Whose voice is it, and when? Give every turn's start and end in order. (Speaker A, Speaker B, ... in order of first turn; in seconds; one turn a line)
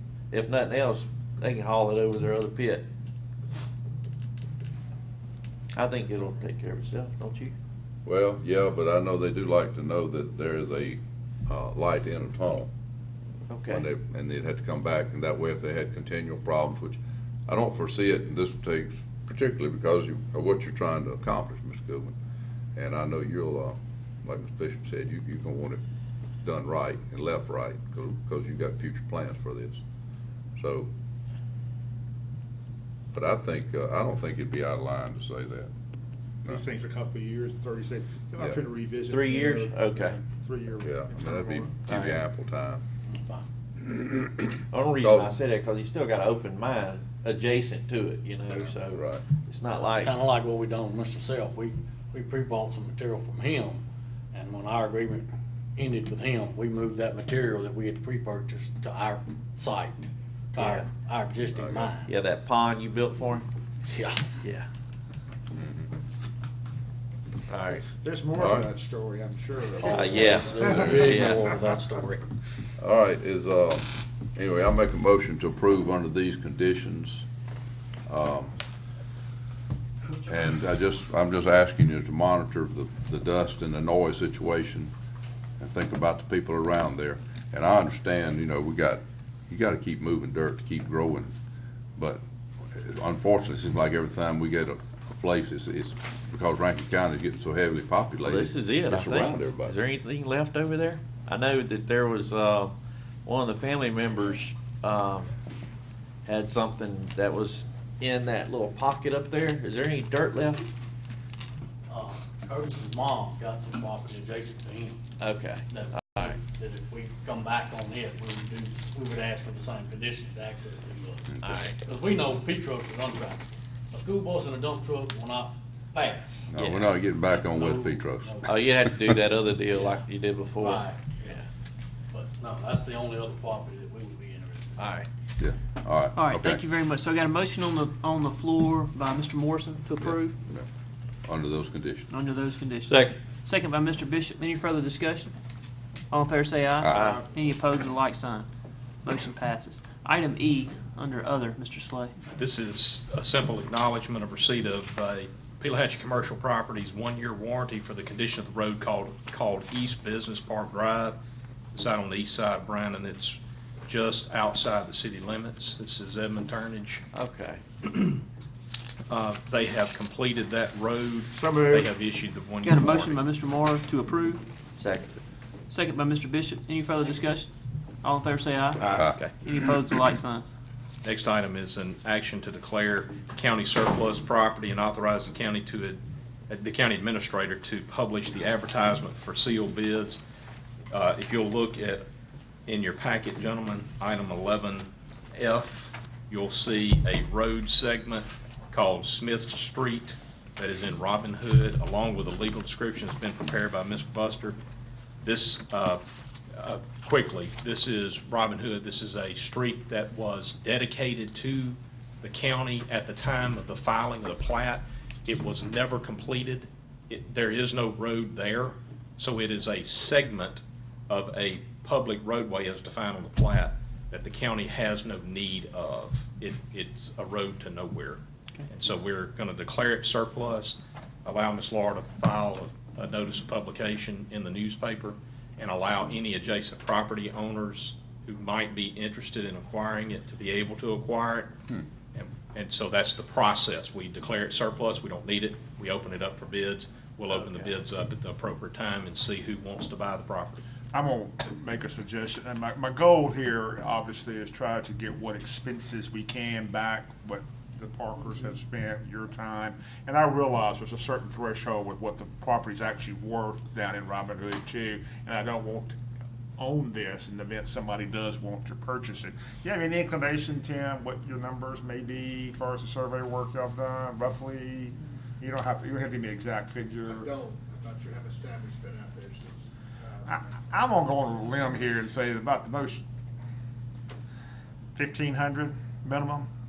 Speaker A: 0.3-2.9
Speaker A: 5.7-7.5
Speaker B: 8.0-12.7
Speaker A: 13.5-13.8
Speaker B: 13.7-22.1
Speaker B: 22.8-25.8
Speaker B: 26.4-29.8
Speaker B: 30.6-30.9
Speaker B: 33.1-35.7
Speaker C: 36.5-41.7
Speaker A: 39.0-40.1
Speaker B: 40.8-42.8
Speaker A: 41.9-42.2
Speaker D: 43.1-43.4
Speaker B: 43.8-45.3
Speaker A: 44.7-50.1
Speaker B: 48.6-49.2
Speaker D: 50.0-62.1
Speaker A: 60.6-60.9
Speaker B: 61.5-61.9
Speaker A: 62.1-63.5
Speaker D: 63.9-64.2
Speaker A: 64.4-64.7
Speaker B: 65.5-65.9
Speaker A: 67.5-67.9
Speaker C: 67.9-71.0
Speaker B: 68.4-68.7
Speaker D: 69.7-72.2
Speaker A: 69.8-71.5
Speaker B: 72.8-77.2
Speaker B: 78.1-78.5
Speaker B: 80.2-84.9
Speaker B: 85.6-91.3
Speaker B: 92.0-99.8
Speaker A: 98.2-102.7
Speaker A: 103.2-105.3
Speaker A: 106.2-110.7
Speaker D: 111.9-115.0
Speaker A: 115.2-116.4
Speaker D: 115.7-126.5
Speaker A: 121.4-121.8
Speaker B: 126.5-128.3
Speaker A: 126.5-126.9
Speaker D: 127.3-128.7
Speaker A: 128.4-131.4
Speaker D: 130.6-131.3
Speaker D: 132.1-134.8
Speaker A: 134.8-135.1
Speaker B: 135.4-136.6
Speaker E: 136.1-140.3
Speaker B: 140.0-140.7
Speaker B: 141.2-142.1
Speaker E: 142.1-145.3
Speaker A: 142.9-143.2
Speaker E: 146.1-148.4
Speaker B: 146.8-147.2
Speaker A: 146.9-147.2
Speaker E: 149.0-152.1
Speaker F: 152.3-161.2
Speaker F: 161.7-167.0
Speaker A: 167.1-167.6
Speaker F: 167.8-168.2
Speaker F: 169.1-173.2
Speaker C: 171.3-171.8
Speaker E: 172.6-174.4
Speaker A: 174.8-175.2
Speaker E: 175.7-177.5
Speaker E: 178.0-180.4
Speaker F: 181.0-190.2
Speaker F: 190.9-192.1
Speaker F: 192.7-204.6
Speaker F: 205.2-206.0
Speaker F: 206.5-241.6
Speaker F: 242.1-250.6
Speaker A: 247.4-247.7
Speaker C: 250.9-266.0
Speaker C: 266.6-277.3
Speaker G: 277.1-280.5
Speaker C: 280.3-283.0
Speaker C: 284.9-286.5